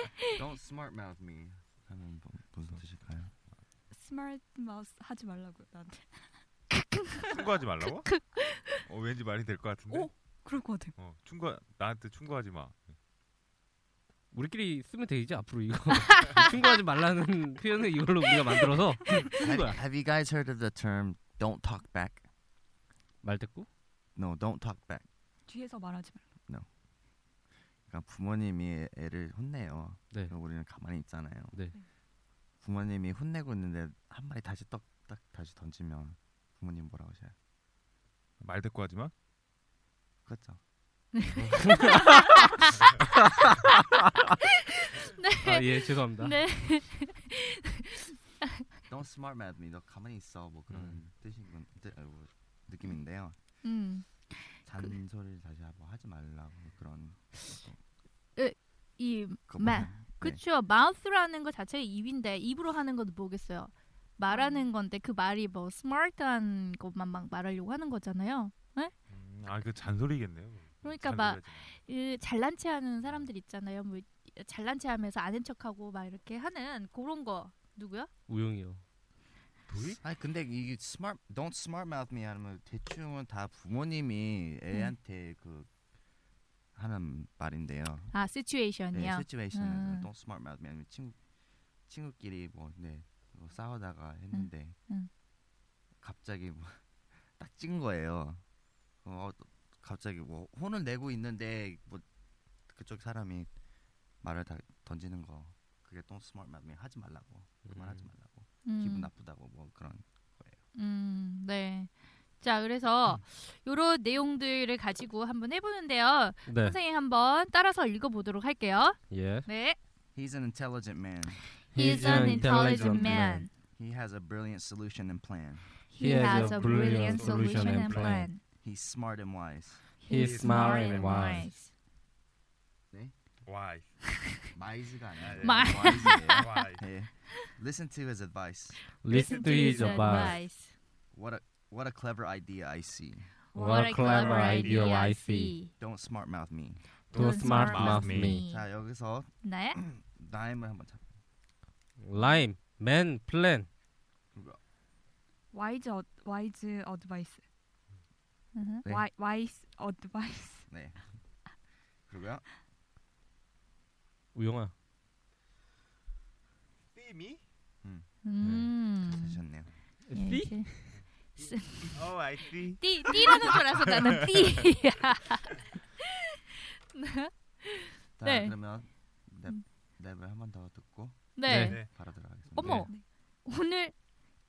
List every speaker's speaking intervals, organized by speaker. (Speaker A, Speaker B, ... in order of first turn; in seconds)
Speaker A: 0.3-3.3, 19.3-22.2, 24.1-25.1, 27.9-31.6, 32.6-37.3, 40.2-40.6, 48.9-53.4, 54.6-57.8, 59.5-60.4, 80.0-85.7, 86.7-88.1, 88.9-91.2, 91.8-94.8, 96.0-98.4, 99.0-102.0, 102.7-103.5, 104.2-110.6, 120.1-121.4, 123.8-125.7, 128.6-129.8, 134.5-138.8, 141.1-143.3, 145.8-146.8, 148.4-151.1, 160.7-161.0, 162.1-162.4, 169.0-169.7, 178.2-182.9
Speaker B: 3.9-6.4, 9.9-11.0, 25.5-26.3, 64.3-64.7, 155.5-157.4, 158.8-160.7
Speaker C: 6.7-7.2, 7.8-8.8, 41.1-42.7, 44.9-48.1, 53.6-54.9, 58.4-68.9, 70.8-78.1, 88.1-90.1, 94.3-95.1, 108.6-109.1, 110.7-119.8, 121.7-123.5, 125.9-128.4, 130.0-131.7, 135.4-136.7, 139.0-140.7, 143.5-145.7, 147.1-148.7, 149.4-149.8, 158.5-158.8, 168.2-169.4, 170.1-172.0, 172.8-175.6, 176.9-178.6, 181.3-181.9, 182.5-183.9
Speaker D: 7.3-8.2, 8.8-10.1, 11.0-12.9, 38.4-39.1, 69.1-71.7, 79.7-80.0, 122.0-123.0, 126.1-128.2, 130.1-131.4, 133.4-133.9, 135.2-136.8, 139.5-140.3, 144.0-145.1, 147.1-148.3, 166.9-167.4, 171.4-174.6, 181.5-181.9
Speaker E: 14.3-19.8, 23.2-23.7, 41.3-42.4, 43.3-44.0, 45.4-46.4, 78.3-78.8, 107.7-108.0, 116.5-116.8, 119.1-119.5, 121.7-123.5, 126.0-128.3, 130.1-131.5, 139.0-140.4, 143.5-145.5, 147.1-148.4, 152.0-153.7, 164.3-164.7, 170.1-170.9, 181.4-181.8